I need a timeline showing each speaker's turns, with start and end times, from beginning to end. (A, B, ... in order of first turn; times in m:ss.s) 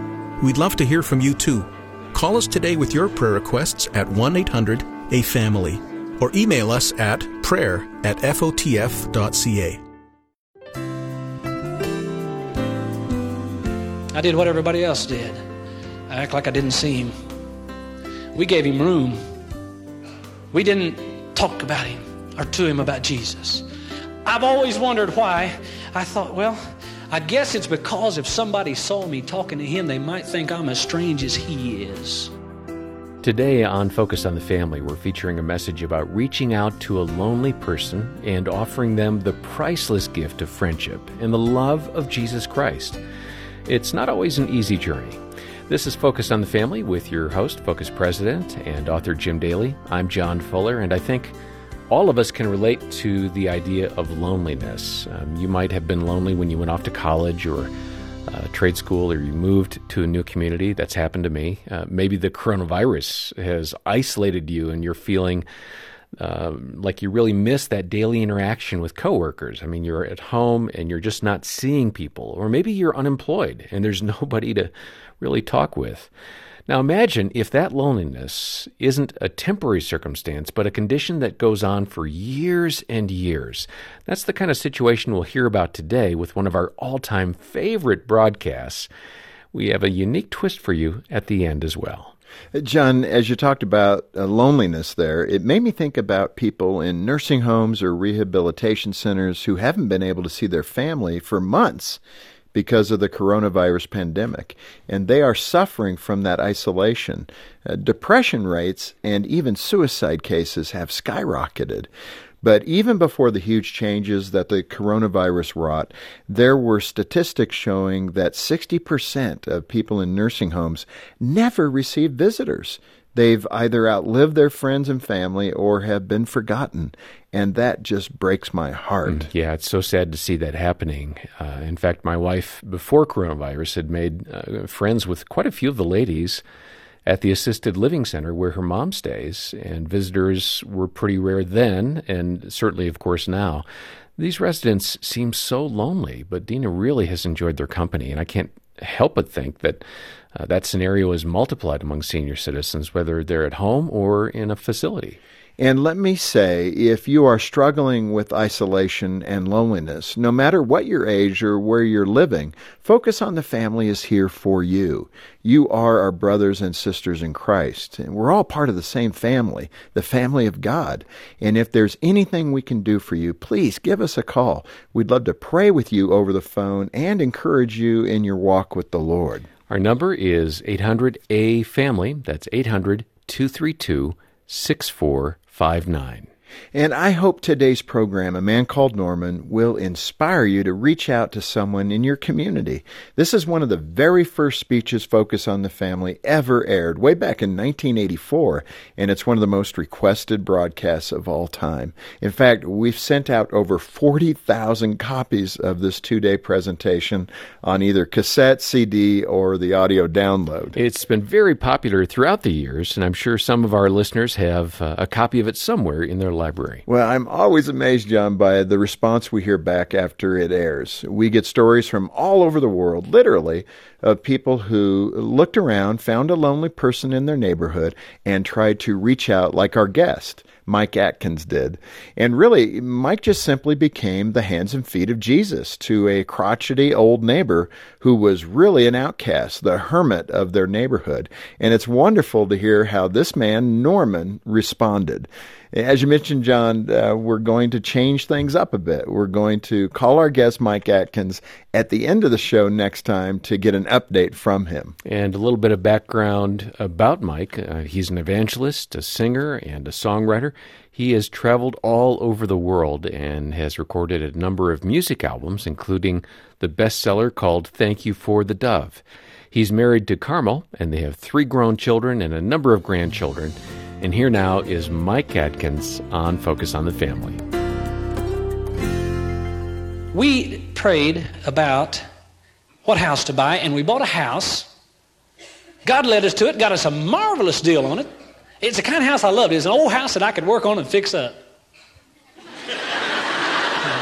0:00.4-0:09.8 A
0:14.1-0:15.4 B
0:16.1-0:17.1 B
0:18.3-0:19.2 B
0:20.5-0:23.7 B
0:24.2-0:32.3 B
0:33.2-0:43.0 C
0:43.6-0:51.3 C
0:51.9-0:57.7 C
0:58.3-1:05.4 C
1:06.2-1:16.1 C
1:16.7-1:28.9 C
1:29.5-1:32.1 C
1:32.5-1:42.0 D
1:42.5-1:51.9 D
1:52.4-2:09.3 D
2:09.0-2:16.4 C
2:17.0-2:23.6 C
2:24.2-2:29.8 C
2:30.3-2:35.2 C
2:35.6-2:59.5 D
2:59.7-3:06.3 C
3:06.7-3:30.8 D
3:30.8-3:36.8 C
3:36.8-4:15.0 D
4:15.0-4:37.4 C
4:40.1-4:42.0 B
4:42.8-4:44.7 B
4:45.8-4:48.1 B
4:48.6-4:51.4 B